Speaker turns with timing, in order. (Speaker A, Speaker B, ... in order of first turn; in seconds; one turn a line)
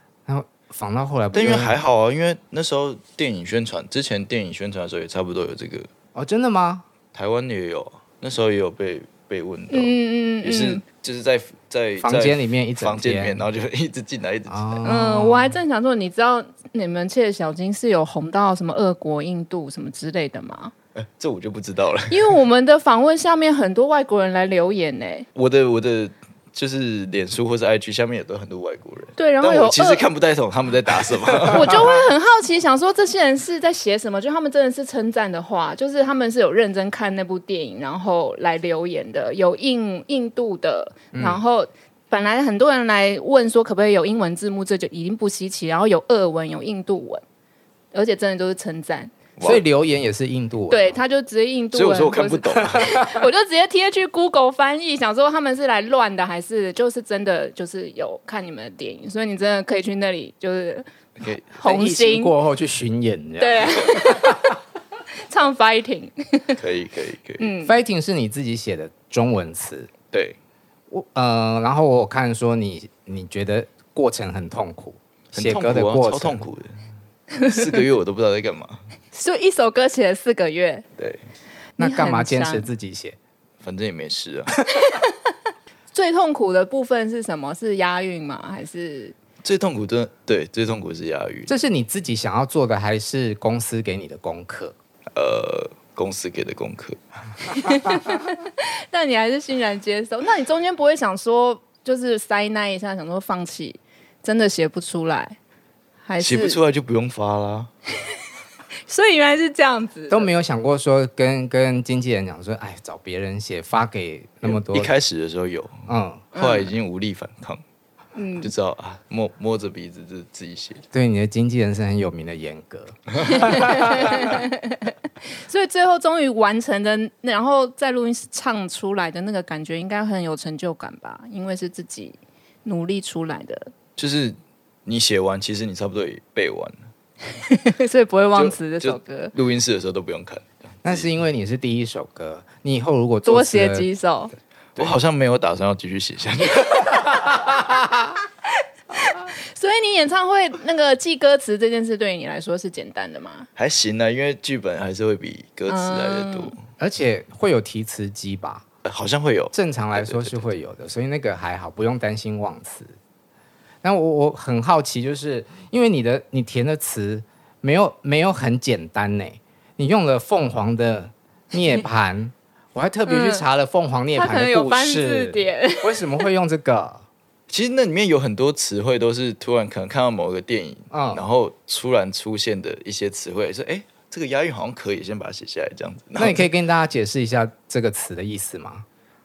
Speaker A: 0.3-1.8
Speaker B: 1.3-5.9
Speaker A: 6.1-6.8
Speaker B: 7.1-14.9
Speaker C: 9.7-10.8
Speaker A: 12.0-13.4
Speaker A: 14.5-15.6
Speaker C: 14.8-20.7
Speaker B: 21.0-22.3
Speaker C: 22.1-25.2
Speaker B: 25.4-31.9
Speaker C: 29.2-30.0
Speaker C: 31.5-47.2
Speaker A: 41.1-41.4
Speaker C: 47.9-49.1
Speaker B: 49.4-49.6
Speaker A: 49.4-51.0
Speaker C: 50.7-60.9
Speaker B: 51.7-53.0
Speaker B: 61.2-61.5
Speaker C: 61.5-62.4
Speaker A: 61.6-64.5
Speaker C: 63.4-64.5
Speaker C: 65.2-66.6
Speaker B: 66.6-67.5
Speaker C: 67.4-67.8
Speaker A: 67.6-69.9
Speaker B: 70.1-70.4
Speaker A: 70.9-76.4
Speaker B: 75.3-76.8
Speaker B: 77.4-78.8
Speaker C: 79.1-80.8
Speaker C: 81.8-82.7
Speaker A: 81.8-83.2
Speaker B: 83.6-84.5
Speaker C: 84.8-85.1
Speaker C: 85.9-89.1
Speaker B: 89.4-91.5
Speaker A: 91.5-94.8
Speaker B: 95.1-97.0
Speaker C: 97.5-105.4
Speaker C: 106.0-106.6
Speaker B: 106.2-107.7
Speaker C: 108.9-110.3
Speaker A: 110.1-114.9
Speaker B: 114.4-117.6
Speaker A: 115.9-116.2
Speaker C: 116.3-116.7
Speaker C: 118.1-118.5
Speaker B: 118.4-120.8
Speaker A: 120.9-124.4
Speaker C: 123.2-133.7
Speaker B: 134.0-136.8
Speaker C: 137.4-139.3
Speaker B: 138.3-141.1
Speaker A: 140.8-143.9
Speaker C: 143.2-144.3
Speaker B: 144.8-147.3
Speaker C: 149.0-153.5
Speaker B: 153.6-156.6
Speaker C: 155.7-156.5
Speaker A: 156.8-158.6
Speaker B: 158.8-160.5
Speaker A: 159.5-162.9
Speaker A: 163.8-177.0
Speaker C: 173.1-173.4
Speaker C: 174.1-176.2
Speaker B: 177.5-186.5
Speaker A: 180.9-181.2
Speaker A: 186.2-188.9